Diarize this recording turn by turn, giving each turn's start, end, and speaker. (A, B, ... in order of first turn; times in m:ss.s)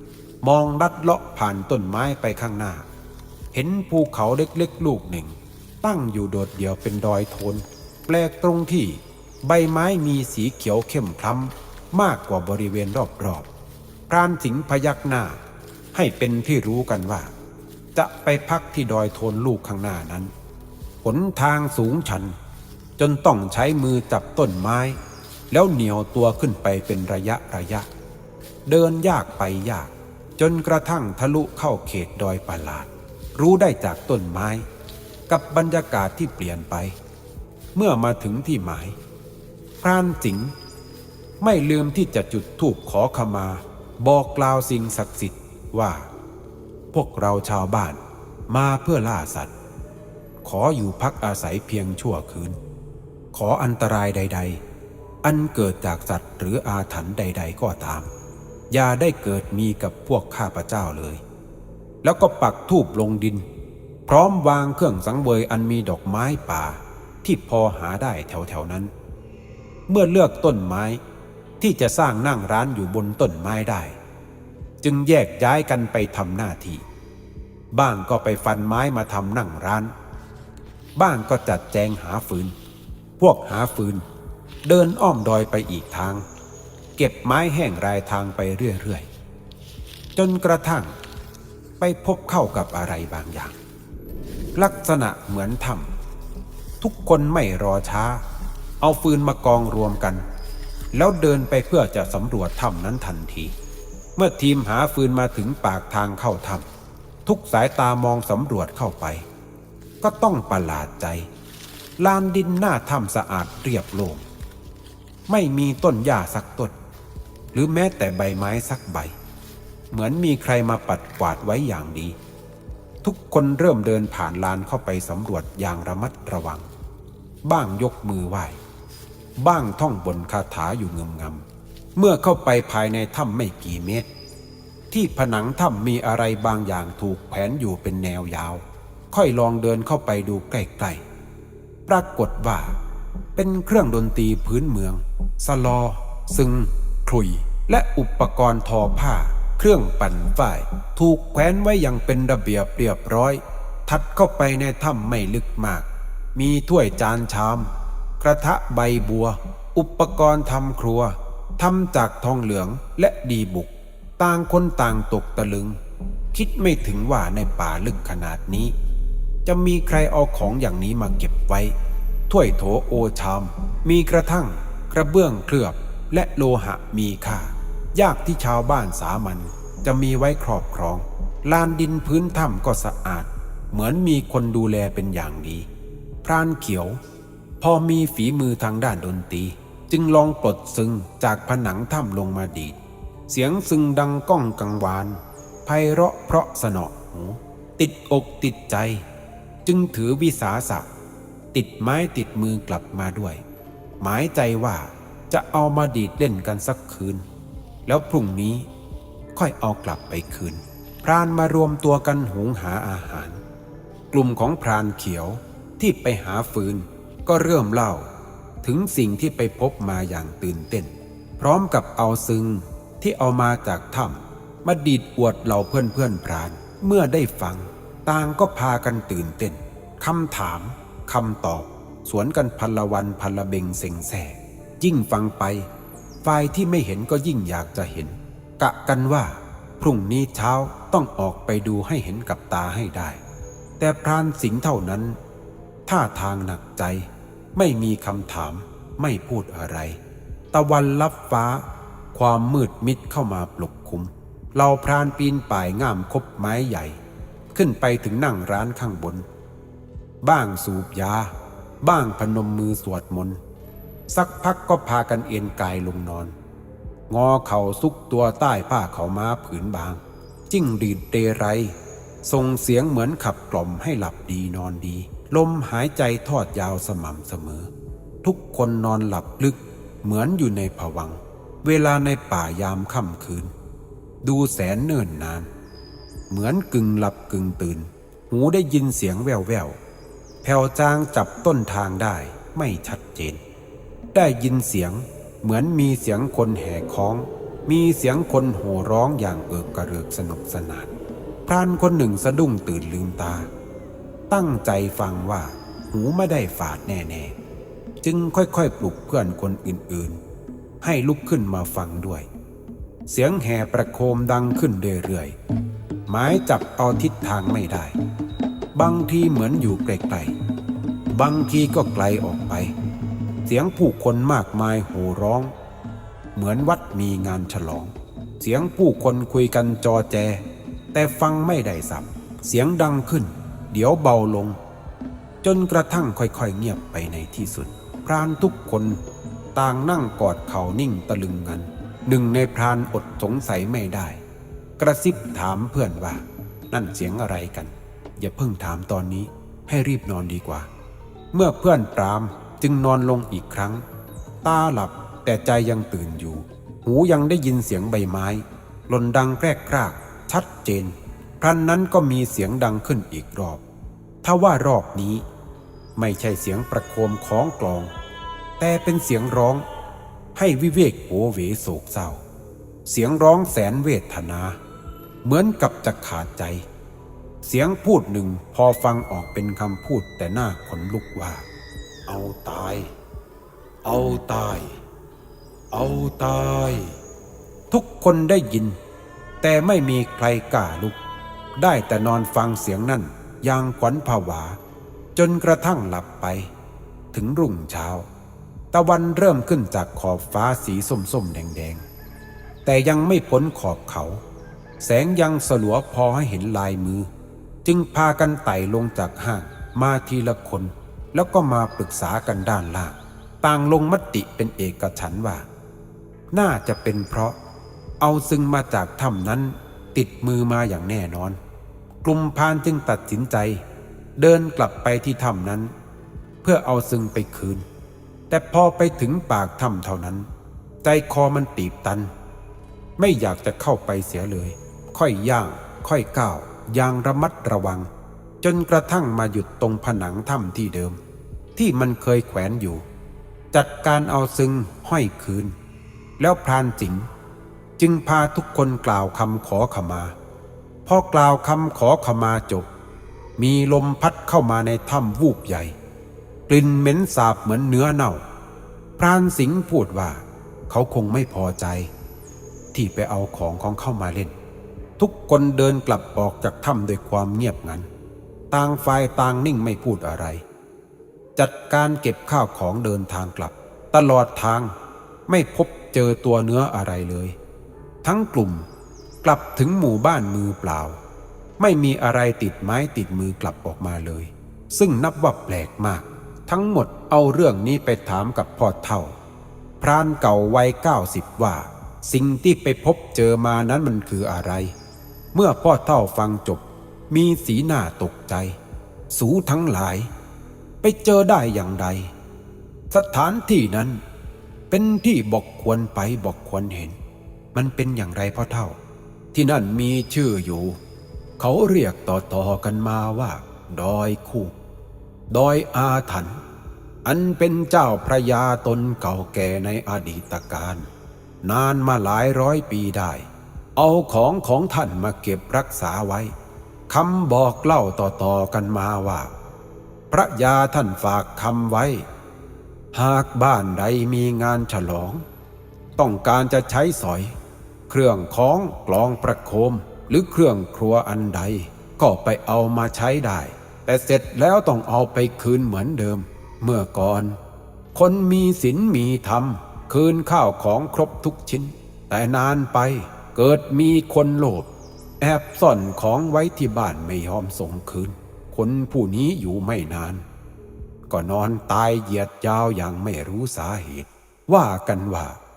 0:00.4-0:02.9 A
0:03.5-0:13.5 A
0:14.1-0:15.4 A
0:15.9-0:17.3 A
0:17.9-0:20.3 A
0:21.0-0:22.4 A
0:23.0-0:25.0 A
0:25.5-0:27.9 A
0:28.6-0:34.6 A
0:35.3-0:37.0 A
0:37.7-0:39.0 A
0:39.8-0:40.5 A
0:41.4-0:46.1 A
0:46.9-0:49.5 A
0:50.4-0:52.6 A
0:53.3-0:54.6 A
0:55.2-0:58.1 A
0:58.7-1:01.2 A
1:02.0-1:03.4 A
1:04.0-1:08.9 A
1:09.9-1:11.0 A
1:11.6-1:14.0 A
1:14.8-1:16.8 A
1:17.7-1:19.9 A
1:21.0-1:22.5 A
1:23.2-1:24.0 A
1:24.6-1:26.2 A
1:27.0-1:29.1 A
1:30.2-1:31.0 A
1:31.8-1:33.6 A
1:34.6-1:35.9 A
1:36.8-1:38.2 A
1:38.8-1:40.2 A
1:40.9-1:43.5 A
1:44.2-1:46.7 A
1:47.2-1:49.2 A
1:50.0-1:51.3 A
1:52.0-1:54.2 A
1:55.3-1:56.8 A
1:57.5-1:59.1 A
1:59.9-2:02.2 A
2:03.0-2:06.7 A
2:07.4-2:08.6 A
2:09.4-2:14.1 A
2:14.9-2:21.0 A
2:21.9-2:22.8 A
2:23.3-2:45.8 A
2:46.3-2:48.7 A
2:49.4-2:51.7 A
2:52.3-3:05.7 A
3:06.2-3:07.0 A
3:07.6-3:19.0 A
3:19.6-3:20.9 A
3:21.5-3:23.4 A
3:24.0-3:27.2 A
3:27.8-3:28.7 A
3:29.3-3:33.4 A
3:34.1-3:38.1 A
3:38.6-3:55.7 A
3:56.2-4:03.2 A
4:03.8-4:05.2 A
4:05.9-4:10.0 A
4:10.5-4:17.0 A
4:17.5-4:19.2 A
4:20.2-4:23.4 A
4:24.1-4:26.3 A
4:27.1-4:37.7 A
4:38.2-4:43.5 A
4:44.2-4:45.5 A
4:46.3-4:49.8 A
4:50.4-4:53.4 A
4:54.1-5:00.9 A
5:01.4-5:03.5 A
5:04.3-5:07.3 A
5:08.0-5:10.2 A
5:10.8-5:12.3 A
5:13.1-5:15.3 A
5:16.1-5:18.0 A
5:18.7-5:20.3 A
5:21.1-5:22.7 A
5:23.4-5:25.5 A
5:26.3-5:30.4 A
5:30.9-5:34.6 A
5:35.4-5:39.0 A
5:39.5-5:44.2 A
5:44.8-5:50.7 A
5:51.3-5:53.8 A
5:54.4-6:03.6 A
6:04.2-6:05.2 A
6:06.0-6:07.9 A
6:08.6-6:09.6 A
6:10.3-6:12.2 A
6:12.8-6:14.6 A
6:15.2-6:16.7 A
6:17.4-6:21.4 A
6:22.1-6:22.9 A
6:23.8-6:24.8 A
6:25.7-6:27.0 A
6:27.7-6:28.8 A
6:29.4-6:31.0 A
6:31.6-6:34.6 A
6:35.1-6:36.5 A
6:37.1-6:38.1 A
6:38.7-6:41.8 A
6:42.6-6:44.2 A
6:44.8-6:47.1 A
6:47.6-6:55.5 A
6:56.3-6:57.4 A
6:58.0-7:01.4 A
7:02.0-7:03.6 A
7:04.2-7:05.7 A
7:06.4-7:07.6 A
7:08.3-7:10.3 A
7:10.8-7:12.1 A
7:13.0-7:17.9 A
7:18.4-7:21.0 A
7:21.6-7:22.8 A
7:23.5-7:25.5 A
7:26.2-7:27.1 A
7:27.8-7:30.1 A
7:30.8-7:32.7 A
7:33.4-7:35.7 A
7:36.5-7:38.2 A
7:39.0-7:41.9 A
7:42.7-7:44.4 A
7:45.0-7:47.9 A
7:48.5-7:50.4 A
7:51.4-7:54.7 A
7:55.3-7:57.4 A
7:58.0-7:58.7 A
7:59.2-8:01.0 A
8:01.6-8:09.1 A
8:09.8-8:14.7 A
8:15.3-8:18.6 A
8:19.1-8:20.1 A
8:20.8-8:22.1 A
8:22.9-8:24.0 A
8:24.7-8:27.0 A
8:27.5-8:28.8 A
8:29.3-8:30.8 A
8:31.4-8:34.5 A
8:35.3-8:36.4 A
8:37.0-8:40.9 A
8:41.4-8:46.3 A
8:46.9-8:49.3 A
8:50.1-8:52.1 A
8:52.9-8:55.2 A
8:56.0-8:57.4 A
8:57.9-9:07.4 A
9:07.9-9:20.2 A
9:21.1-9:25.4 A